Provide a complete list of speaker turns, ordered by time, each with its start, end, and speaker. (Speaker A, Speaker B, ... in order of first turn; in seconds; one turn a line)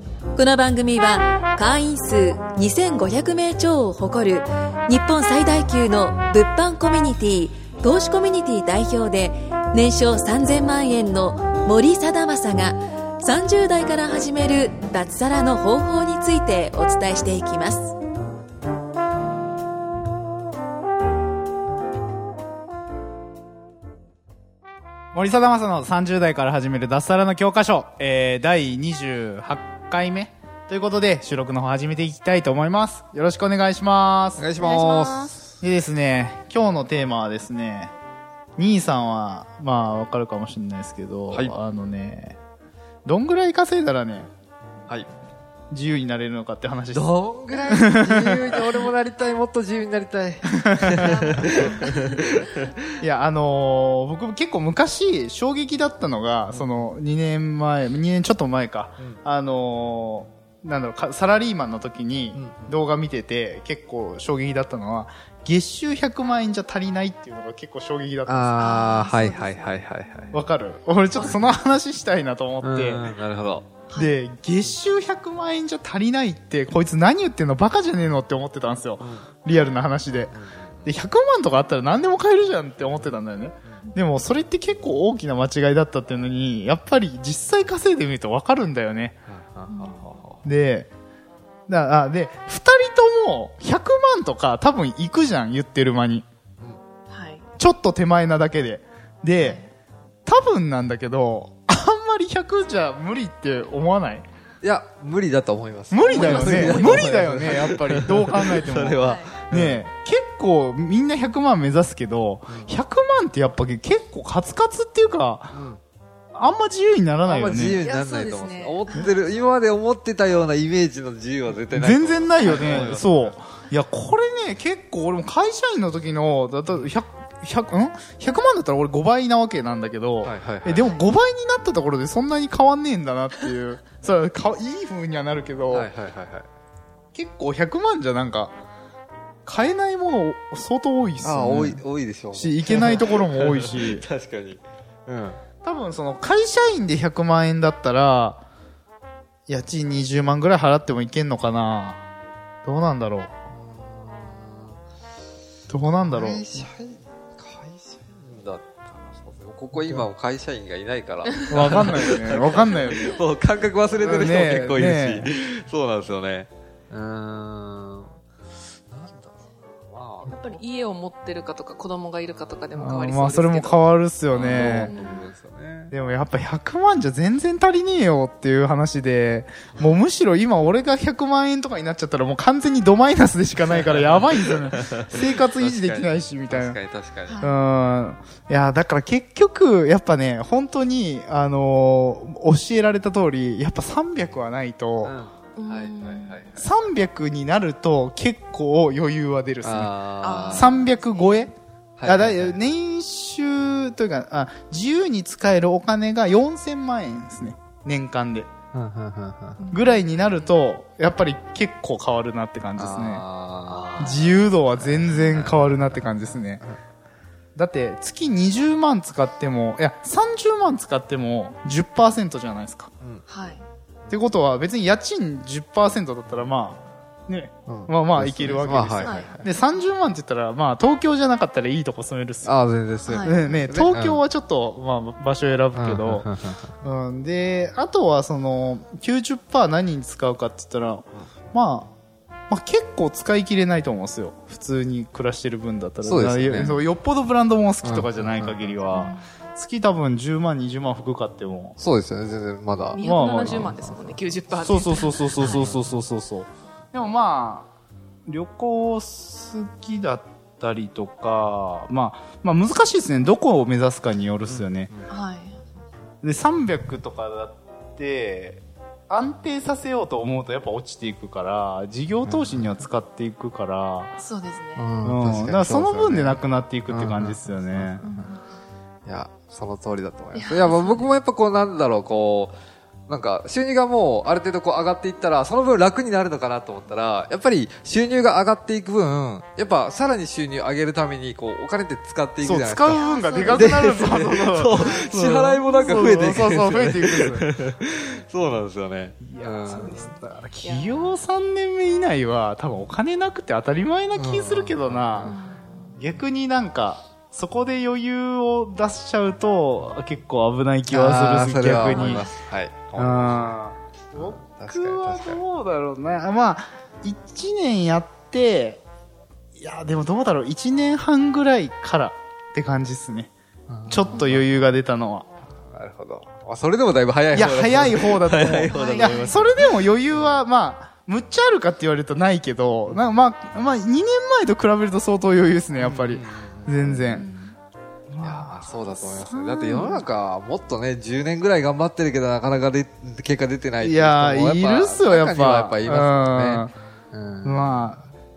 Speaker A: 0.3-17.9
Speaker B: 25.1-34.5
Speaker C: 34.4-35.4
Speaker D: 34.6-35.4
Speaker B: 35.6-37.9
Speaker B: 38.6-42.4
Speaker B: 43.0-44.3
Speaker B: 45.7-48.5
Speaker C: 46.9-52.8
Speaker B: 50.6-51.2
Speaker D: 51.0-51.9
Speaker B: 53.0-68.5
Speaker C: 56.5-56.8
Speaker C: 62.3-62.7
Speaker C: 68.2-70.4
Speaker D: 68.5-69.7
Speaker B: 70.3-73.0
Speaker C: 71.2-71.5
Speaker C: 72.6-73.8
Speaker B: 73.9-89.2
Speaker C: 80.3-80.9
Speaker C: 89.3-90.4
Speaker D: 89.7-90.1
Speaker B: 90.4-90.9
Speaker B: 91.7-96.2
Speaker D: 97.1-97.5
Speaker B: 97.6-99.6
Speaker D: 99.4-99.7
Speaker B: 100.2-104.2
Speaker C: 104.6-109.8
Speaker B: 105.9-115.6
Speaker D: 106.1-107.1
Speaker D: 109.0-109.4
Speaker C: 115.5-115.8
Speaker B: 116.3-117.8
Speaker C: 117.2-123.3
Speaker D: 117.8-119.2
Speaker B: 121.7-135.9
Speaker D: 122.4-122.8
Speaker C: 130.2-130.9
Speaker C: 135.7-136.5
Speaker B: 137.1-138.5
Speaker B: 139.4-144.1
Speaker C: 141.2-145.4
Speaker B: 145.6-148.4
Speaker B: 149.5-152.0
Speaker B: 152.6-153.3
Speaker C: 153.5-154.8
Speaker B: 155.7-156.7
Speaker C: 156.0-168.1
Speaker B: 159.8-160.1
Speaker D: 161.5-162.0
Speaker B: 161.5-163.1
Speaker B: 164.0-165.3
Speaker C: 168.9-170.4
Speaker D: 170.2-173.8
Speaker B: 172.8-174.9
Speaker C: 174.3-175.9
Speaker D: 174.7-175.3
Speaker B: 175.9-186.8
Speaker C: 183.7-187.5
Speaker D: 187.3-187.5
Speaker B: 187.4-195.2
Speaker C: 195.0-196.7
Speaker D: 195.6-196.4
Speaker B: 196.6-199.9
Speaker C: 199.6-200.8
Speaker D: 200.2-201.5
Speaker B: 200.5-201.5
Speaker C: 202.0-202.6
Speaker B: 202.0-208.5
Speaker C: 208.7-209.7
Speaker D: 209.6-210.4
Speaker B: 209.7-213.2
Speaker C: 212.8-214.2
Speaker B: 214.0-216.6
Speaker C: 214.7-216.0
Speaker B: 217.6-222.9
Speaker D: 223.3-223.6
Speaker B: 224.1-232.5
Speaker C: 227.7-229.5
Speaker D: 229.0-229.6
Speaker C: 232.4-234.2
Speaker D: 233.1-233.4
Speaker B: 233.2-236.3
Speaker C: 235.7-236.7
Speaker B: 236.8-241.9
Speaker B: 242.5-251.8
Speaker C: 246.0-246.8
Speaker D: 246.5-246.8
Speaker C: 247.8-248.8
Speaker D: 248.9-249.2
Speaker C: 251.8-254.3
Speaker D: 252.9-255.7
Speaker B: 253.0-253.7
Speaker B: 254.5-257.7
Speaker C: 255.4-255.8
Speaker B: 258.3-264.9
Speaker C: 264.5-265.0
Speaker D: 265.1-265.6
Speaker B: 266.2-274.1
Speaker C: 272.2-272.7
Speaker D: 274.2-275.0
Speaker C: 274.8-278.3
Speaker B: 275.0-278.0
Speaker D: 278.0-278.4
Speaker C: 279.1-282.6
Speaker D: 280.3-281.1
Speaker C: 283.1-300.0
Speaker B: 292.4-297.5
Speaker D: 292.9-295.1
Speaker B: 299.2-305.4
Speaker D: 299.7-301.1
Speaker C: 304.1-305.3
Speaker D: 305.2-305.9
Speaker B: 306.0-312.3
Speaker C: 310.9-313.6
Speaker D: 311.8-312.3
Speaker B: 312.9-318.8
Speaker C: 314.1-315.4
Speaker B: 319.6-323.3
Speaker C: 323.7-324.6
Speaker B: 323.9-325.3
Speaker C: 325.7-330.4
Speaker B: 327.3-337.3
Speaker D: 328.7-329.5
Speaker C: 335.8-337.2
Speaker D: 337.1-337.5
Speaker B: 338.1-338.5
Speaker C: 338.2-347.8
Speaker B: 339.1-340.0
Speaker B: 343.8-346.7
Speaker B: 347.4-348.0